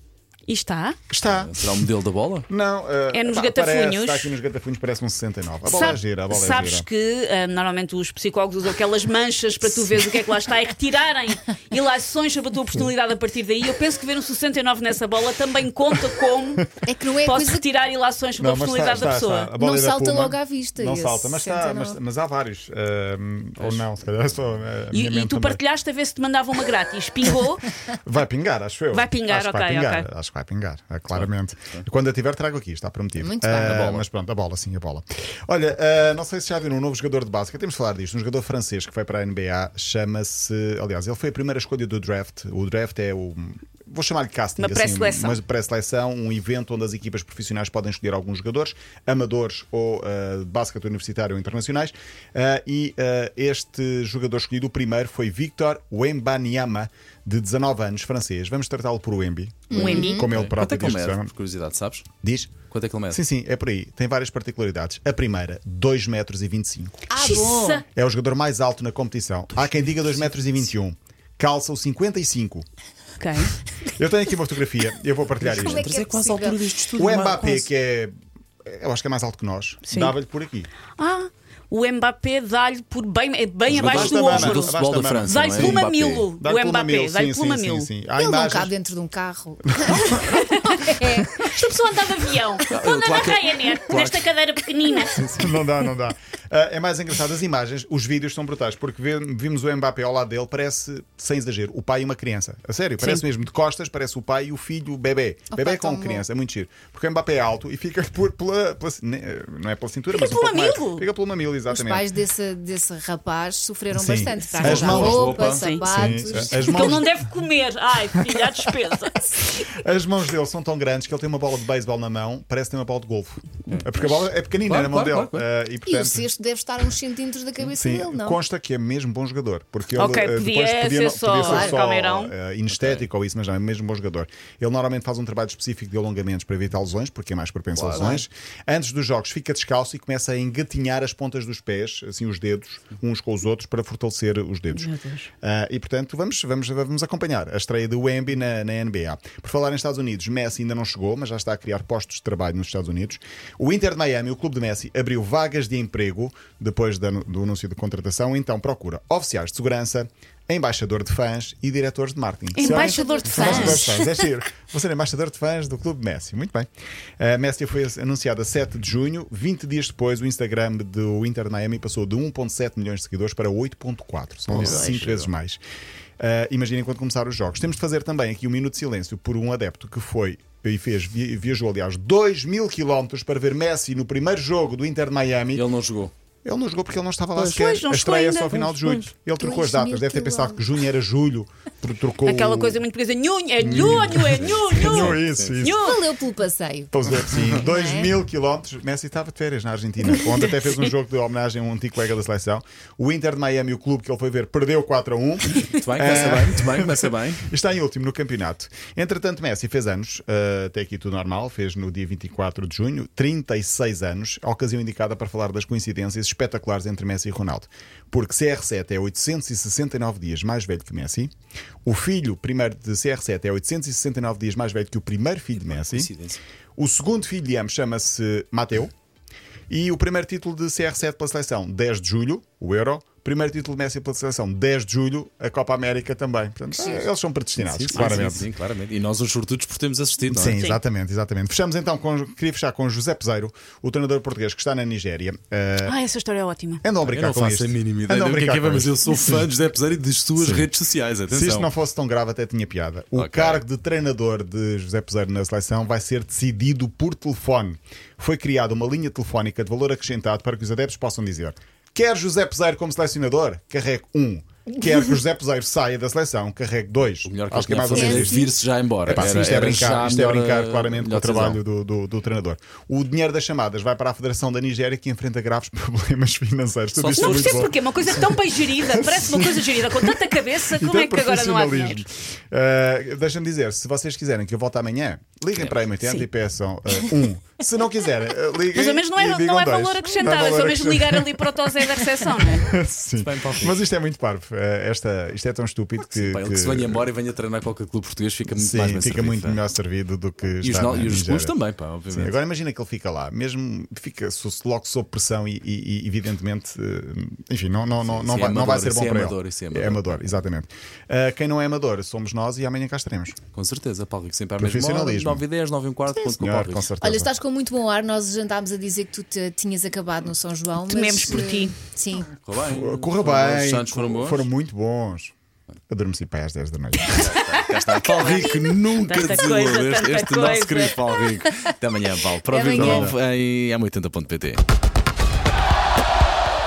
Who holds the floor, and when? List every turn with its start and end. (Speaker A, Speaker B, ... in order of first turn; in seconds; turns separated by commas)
Speaker A: 0.5-1.0, Speaker B: 1.1-1.6, Speaker C: 1.3-2.5, Speaker B: 2.5-6.9, Speaker A: 3.1-4.4, Speaker A: 5.7-19.5, Speaker D: 16.8-17.6, Speaker B: 18.4-25.6, Speaker D: 19.6-22.0, Speaker C: 23.6-23.9, Speaker A: 24.9-27.7, Speaker B: 27.9-61.3, Speaker A: 28.9-30.1, Speaker C: 31.1-31.8, Speaker D: 33.2-33.8, Speaker C: 33.6-34.0, Speaker A: 44.6-45.4, Speaker D: 59.7-60.3, Speaker A: 59.7-60.3, Speaker C: 60.3-63.2, Speaker B: 62.2-62.6, Speaker B: 63.1-67.1, Speaker D: 67.1-67.8, Speaker A: 67.2-67.8, Speaker B: 67.9-72.7, Speaker A: 73.2-73.5, Speaker B: 73.9-75.9, Speaker C: 75.4-77.6, Speaker D: 75.5-76.6, Speaker B: 76.9-80.7, Speaker A: 79.9-80.1, Speaker A: 81.0-87.9, Speaker B: 83.7-85.9, Speaker C: 83.7-86.3, Speaker B: 86.4-88.7, Speaker D: 88.2-91.4, Speaker A: 90.0-95.2, Speaker C: 92.7-94.3, Speaker B: 95.1-112.1, Speaker D: 105.5-106.3, Speaker A: 110.1-111.0, Speaker D: 111.7-117.0, Speaker B: 113.9-117.2, Speaker C: 114.6-115.7, Speaker A: 115.3-115.9, Speaker A: 116.5-119.4, Speaker B: 118.2-118.5, Speaker B: 119.3-126.3, Speaker C: 124.6-125.5, Speaker D: 125.9-128.4, Speaker B: 127.6-166.7, Speaker A: 129.9-132.3, Speaker D: 131.4-131.8, Speaker C: 132.7-133.0, Speaker C: 137.7-138.2, Speaker A: 144.7-145.3, Speaker A: 162.6-164.0, Speaker D: 162.6-164.0, Speaker B: 167.2-175.6, Speaker A: 174.5-175.0, Speaker C: 174.5-175.3, Speaker B: 176.2-185.7, Speaker C: 185.6-186.1, Speaker B: 186.4-192.8, Speaker A: 187.3-188.7, Speaker D: 189.4-190.8, Speaker A: 192.2-196.0, Speaker B: 193.6-195.9, Speaker C: 193.7-195.6, Speaker D: 195.7-198.2, Speaker B: 196.9-221.3, Speaker A: 200.1-200.7, Speaker C: 205.7-207.5, Speaker B: 221.8-226.1, Speaker C: 225.6-226.4, Speaker B: 226.8-228.9, Speaker B: 229.7-238.5, Speaker C: 237.6-240.6, Speaker A: 237.9-238.3, Speaker B: 240.3-246.0, Speaker A: 240.4-240.8, Speaker A: 245.8-246.8, Speaker B: 246.8-249.5, Speaker C: 247.1-251.7, Speaker B: 250.4-250.7, Speaker B: 251.3-268.5, Speaker C: 253.2-253.6, Speaker C: 267.2-271.6, Speaker D: 267.9-268.5, Speaker B: 269.1-291.5, Speaker C: 276.9-277.7, Speaker A: 277.2-282.0, Speaker C: 285.6-285.9, Speaker A: 288.8-292.7, Speaker B: 292.4-297.1, Speaker C: 293.2-293.8, Speaker C: 296.0-299.6, Speaker B: 298.5-301.6, Speaker C: 300.6-302.4, Speaker B: 302.1-313.4, Speaker C: 308.0-310.2, Speaker C: 313.5-316.9, Speaker B: 314.6-315.4, Speaker B: 316.2-317.3, Speaker D: 317.0-322.3, Speaker A: 320.9-321.7, Speaker C: 322.4-324.5, Speaker B: 322.6-325.3, Speaker B: 325.9-327.3, Speaker A: 327.0-331.2, Speaker C: 327.1-334.6, Speaker D: 332.4-333.1, Speaker B: 332.7-333.2